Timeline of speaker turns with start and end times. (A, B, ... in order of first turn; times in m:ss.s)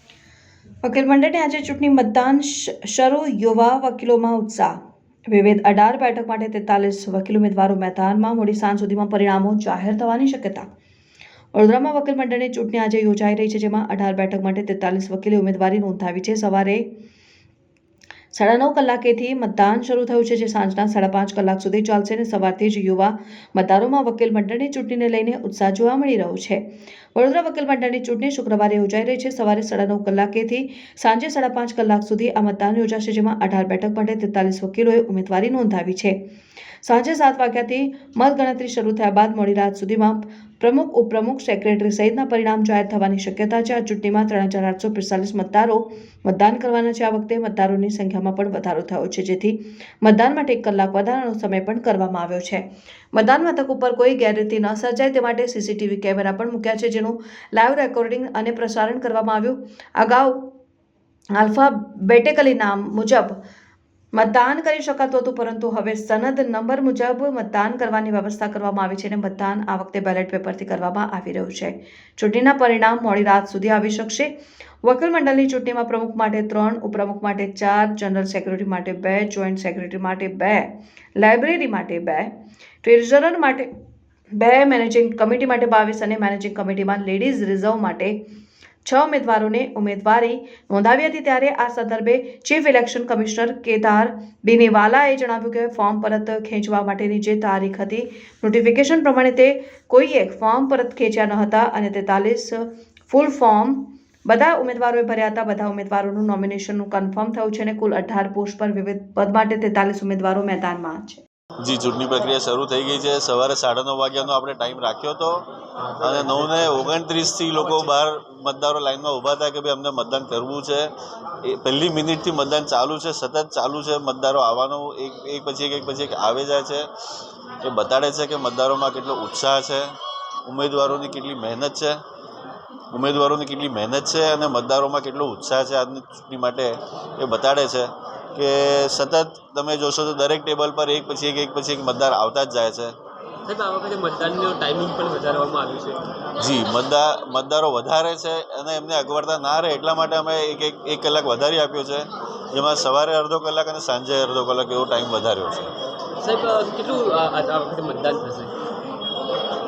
0:00.8-0:04.7 A
0:05.3-0:10.6 A
0:11.5-0:16.8 A
0:18.3-0:26.6 A
0:27.1-0:36.2 A
0:36.8-1:00.4 A
1:01.4-1:03.4 A
1:04.1-1:14.3 A
1:14.8-1:22.3 A
1:22.8-1:23.7 A
1:24.4-1:28.2 A
1:28.8-1:51.2 A
1:51.6-1:55.4 B
1:55.9-1:57.9 C
1:56.0-2:00.9 B
2:01.4-2:06.8 B
2:07.6-2:09.9 B
2:10.5-2:12.0 B
2:12.9-2:22.9 B
2:23.4-2:26.0 C
2:26.4-2:35.6 B
2:36.2-2:38.5 C